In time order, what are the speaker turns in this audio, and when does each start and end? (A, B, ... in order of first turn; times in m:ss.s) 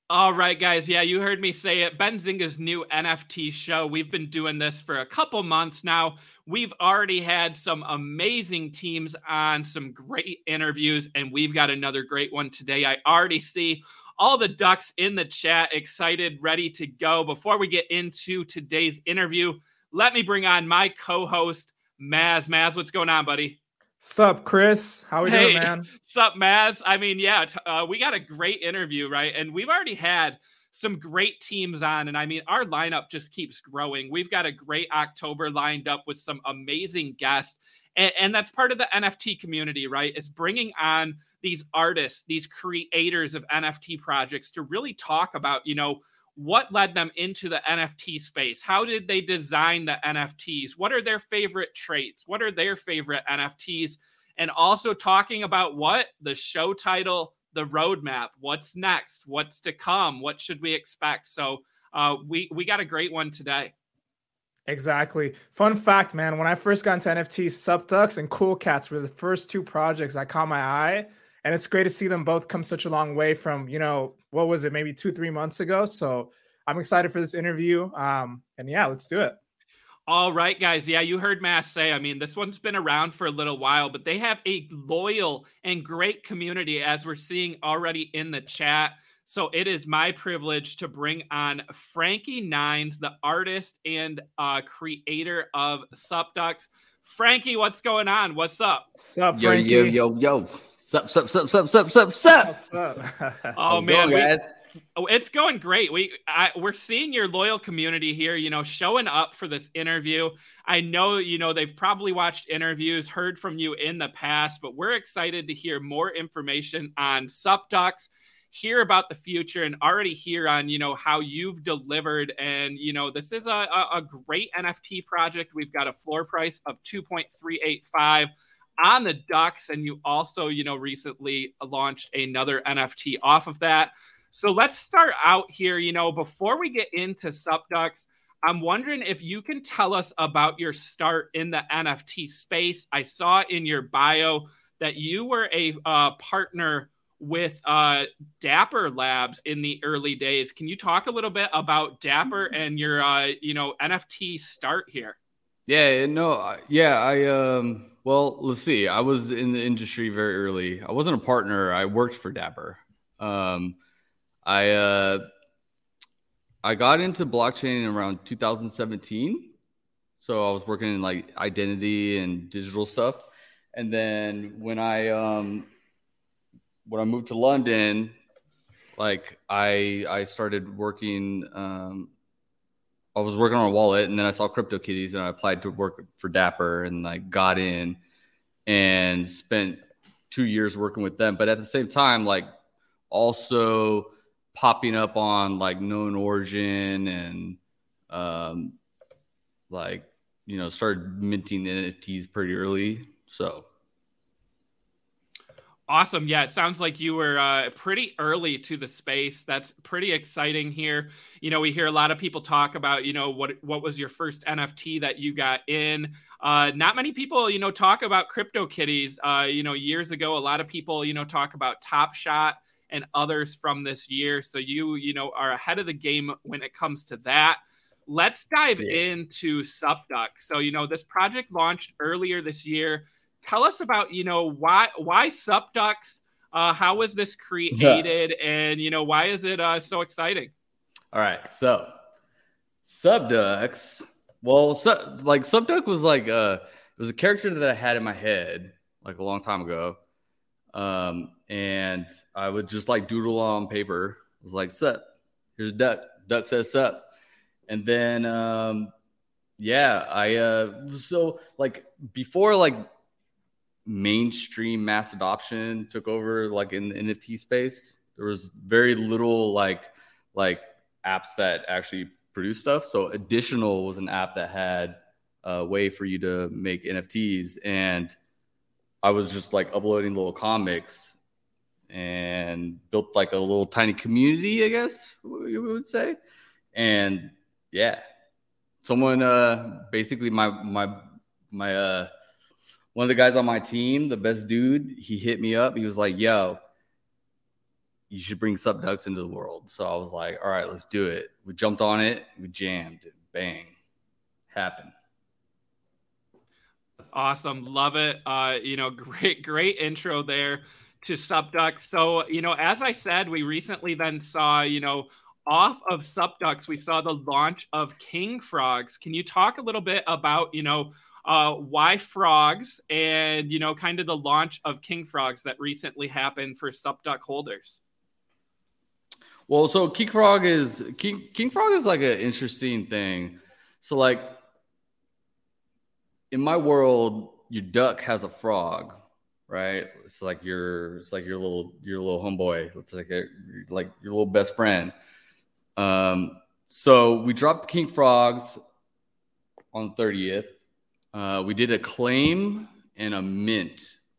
0:00.1-0:23.6 A
0:24.0-0:25.9 B
0:25.2-1:03.7 A
1:04.7-1:19.4 B
1:20.1-1:38.9 A
1:39.0-1:40.0 B
1:39.3-1:42.5 C
1:42.3-1:43.6 B
1:43.6-1:44.3 A
1:43.7-1:44.5 C
1:45.0-2:35.2 A
2:35.7-2:43.8 C
2:44.4-2:45.2 C
2:46.6-2:49.5 C
2:50.2-2:55.7 C
2:56.9-2:58.2 C
2:59.0-3:02.1 C
3:03.2-3:08.0 C
3:08.7-3:12.5 C
3:13.1-3:17.6 C
3:18.1-3:18.8 C
3:19.7-3:23.7 C
3:25.9-4:00.5 A
3:57.7-3:58.1 C
4:01.1-4:01.9 C
4:02.8-4:10.0 C
4:10.7-4:15.0 C
4:15.6-4:17.1 C
4:17.7-4:18.9 C
4:19.6-4:22.9 C
4:23.9-4:38.2 C
4:39.0-4:41.2 C
4:41.9-4:46.2 C
4:46.7-4:48.0 C
4:48.8-4:52.1 C
4:53.0-4:56.6 C
4:58.1-5:03.7 C
5:04.5-5:04.9 C
5:07.1-5:27.8 A
5:29.5-5:34.4 C
5:36.3-5:44.9 C
5:45.8-5:48.6 C
5:49.7-5:50.5 C
5:51.1-5:54.0 C